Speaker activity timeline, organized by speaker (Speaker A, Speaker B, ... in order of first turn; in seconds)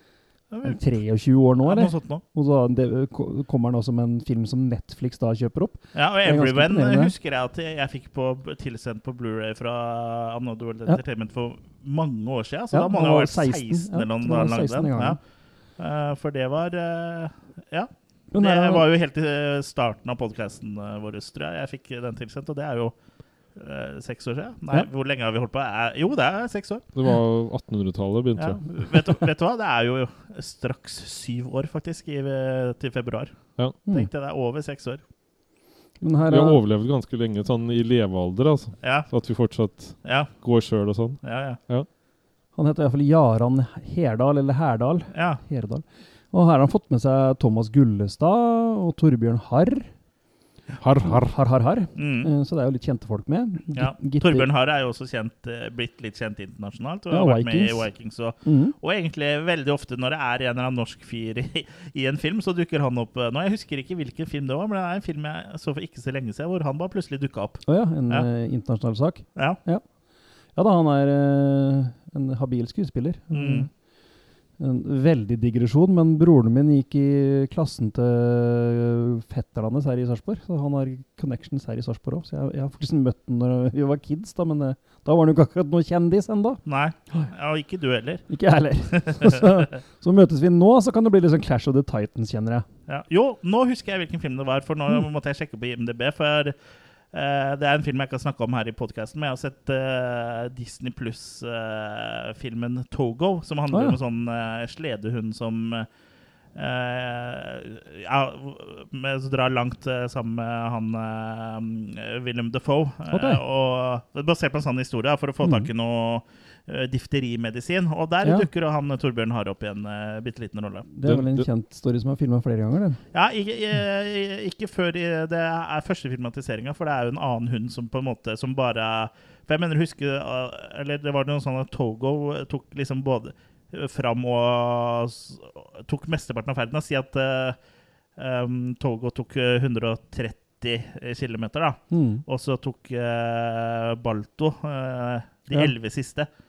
Speaker A: 0.5-1.0, 1.6-2.2, 5.9-23.0, 23.5-26.8, 28.4-35.0, 38.8-39.1, 40.0-40.3, 41.2-41.6, 45.1-45.4, 52.0-52.3, 53.7-68.3, 73.3-73.7, 86.7-88.2, 89.0-89.6, 92.9-96.6, 97.1-105.9, 106.5-120.9, 123.1-137.6, 138.2-146.3
Speaker B: 0.6-7.1, 12.7-15.2, 18.3-18.9, 36.0-36.6, 42.5-49.9, 51.0-54.5, 57.1-57.9, 58.4-58.7, 67.7-69.8, 70.5-73.7, 74.6-86.6, 88.3-92.7, 103.7-104.0, 113.1-113.4, 115.4-115.7, 118.2-118.5, 120.9-123.0, 141.9-142.2
Speaker C: 26.9-28.7, 36.3-41.9, 50.8-51.4, 121.0-121.5